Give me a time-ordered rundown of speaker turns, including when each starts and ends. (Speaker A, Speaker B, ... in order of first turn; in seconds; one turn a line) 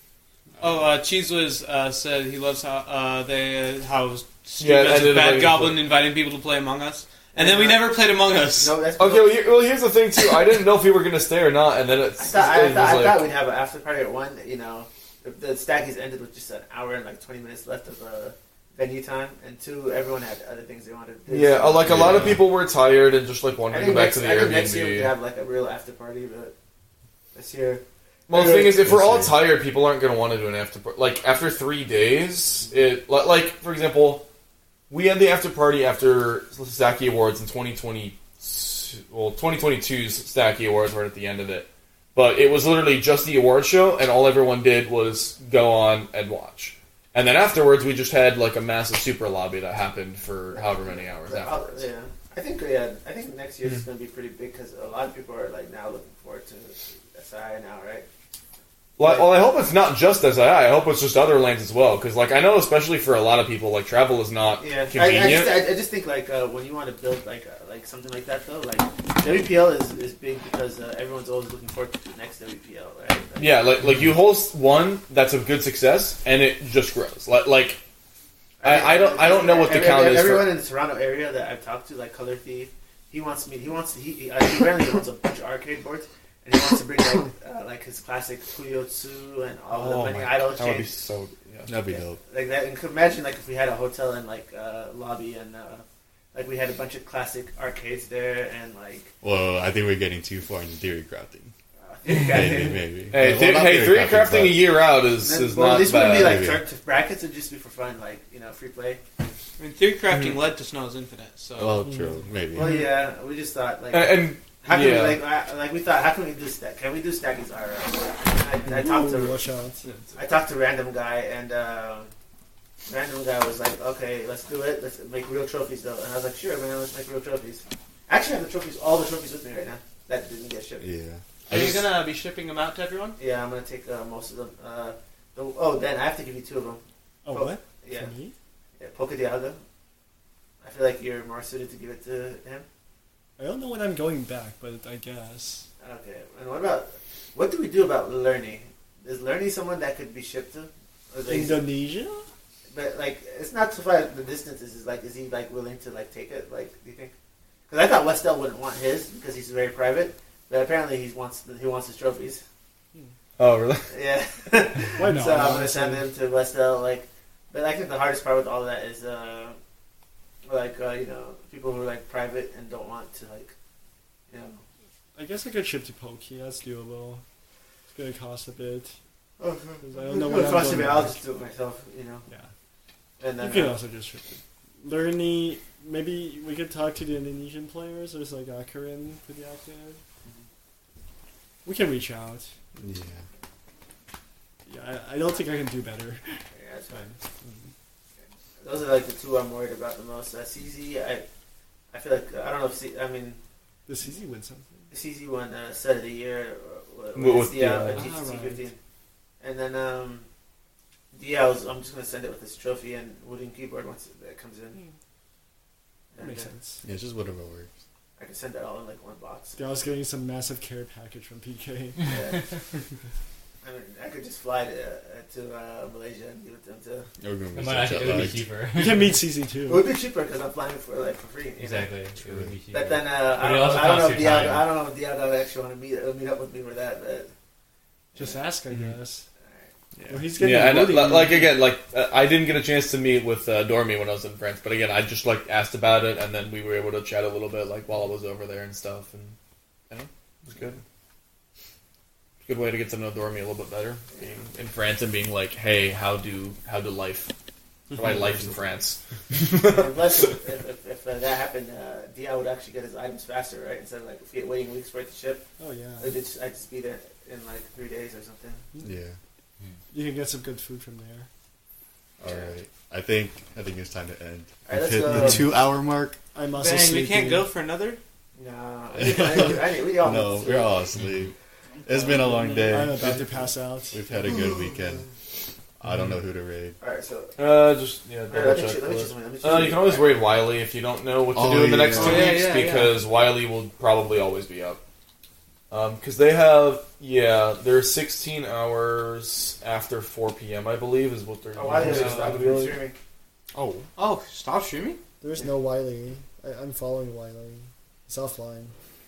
Speaker A: 0.6-8.8
Speaker B: 4.6-5.8
Speaker C: 7.3-8.0
Speaker C: 8.5-9.6
Speaker B: 9.0-13.3
Speaker C: 12.2-22.4
Speaker B: 21.3-25.1
Speaker D: 21.8-22.4
Speaker C: 23.7-26.5
Speaker C: 27.3-28.7
Speaker B: 28.3-34.2
Speaker D: 28.4-29.5
Speaker B: 34.9-51.9
Speaker C: 50.5-58.0
Speaker B: 59.0-65.6
Speaker C: 59.0-59.5
Speaker C: 64.6-73.6
Speaker B: 73.4-77.8
Speaker C: 78.6-90.9
Speaker B: 78.6-80.5
Speaker B: 89.7-91.7
Speaker D: 91.7-92.2
Speaker C: 91.8-99.1
Speaker D: 99.2-101.5
Speaker C: 101.8-102.8
Speaker D: 102.2-104.8
Speaker B: 103.1-106.5
Speaker C: 105.1-109.0
Speaker D: 106.0-106.6
Speaker A: 109.6-111.9
Speaker B: 110.1-110.4
Speaker D: 111.6-112.7
Speaker E: 111.8-112.3
Speaker C: 112.5-119.5
Speaker B: 113.9-115.2
Speaker E: 118.7-119.8
Speaker C: 120.1-122.1
Speaker C: 122.8-130.9
Speaker D: 130.8-131.9
Speaker A: 131.5-133.2
Speaker C: 133.2-138.1
Speaker E: 137.3-138.3
Speaker C: 138.8-139.6
Speaker C: 140.6-142.7
Speaker E: 143.4-145.7
Speaker C: 145.8-151.8
Speaker E: 151.3-152.2
Speaker C: 152.7-157.1
Speaker C: 157.7-162.4
Speaker B: 163.4-163.8
Speaker C: 163.9-169.6
Speaker E: 165.0-166.1
Speaker C: 170.4-173.5
Speaker C: 174.3-174.6
Speaker E: 175.1-177.2
Speaker E: 177.9-178.9
Speaker C: 179.4-182.3
Speaker E: 179.8-181.2
Speaker C: 183.2-183.8
Speaker E: 183.4-190.0
Speaker E: 191.6-192.5
Speaker D: 192.8-193.2
Speaker E: 194.7-196.4
Speaker C: 196.5-197.2
Speaker E: 197.0-197.7
Speaker C: 198.6-201.2
Speaker C: 201.9-203.4
Speaker E: 203.9-204.8
Speaker C: 204.9-208.8
Speaker B: 207.2-208.0
Speaker A: 207.9-208.6
Speaker C: 209.4-210.3
Speaker C: 211.1-214.8
Speaker C: 216.1-216.5
Speaker E: 216.2-216.8
Speaker D: 216.8-217.7
Speaker C: 218.2-219.6
Speaker E: 219.6-222.0
Speaker C: 222.0-222.5
Speaker C: 223.6-227.1
Speaker D: 227.2-228.5
Speaker F: 227.5-229.2
Speaker E: 228.7-229.8
Speaker C: 229.6-231.9
Speaker F: 231.6-234.7
Speaker D: 232.2-232.5
Speaker C: 232.7-237.3
Speaker C: 238.1-238.4
Speaker E: 238.2-239.2
Speaker C: 239.4-239.7
Speaker E: 240.1-241.5
Speaker B: 240.3-249.3
Speaker B: 249.9-250.8
Speaker B: 252.4-257.3
Speaker C: 254.1-254.5
Speaker E: 257.9-258.3
Speaker B: 257.9-260.3
Speaker C: 259.6-265.5
Speaker E: 265.6-266.1
Speaker C: 266.0-268.6
Speaker D: 268.8-269.2
Speaker E: 269.9-271.3
Speaker D: 272.2-276.2
Speaker C: 272.2-272.5
Speaker C: 274.6-275.5
Speaker E: 276.3-277.5
Speaker A: 276.5-278.0
Speaker C: 278.4-280.9
Speaker D: 279.0-281.3
Speaker D: 281.9-285.1
Speaker E: 282.6-284.0
Speaker D: 285.8-286.8
Speaker C: 286.8-287.5
Speaker B: 287.4-294.8
Speaker C: 288.3-290.1
Speaker D: 291.3-292.3
Speaker A: 292.0-292.9
Speaker B: 295.7-302.8
Speaker C: 301.5-302.9
Speaker D: 303.5-303.9
Speaker A: 303.9-305.0
Speaker E: 305.2-308.7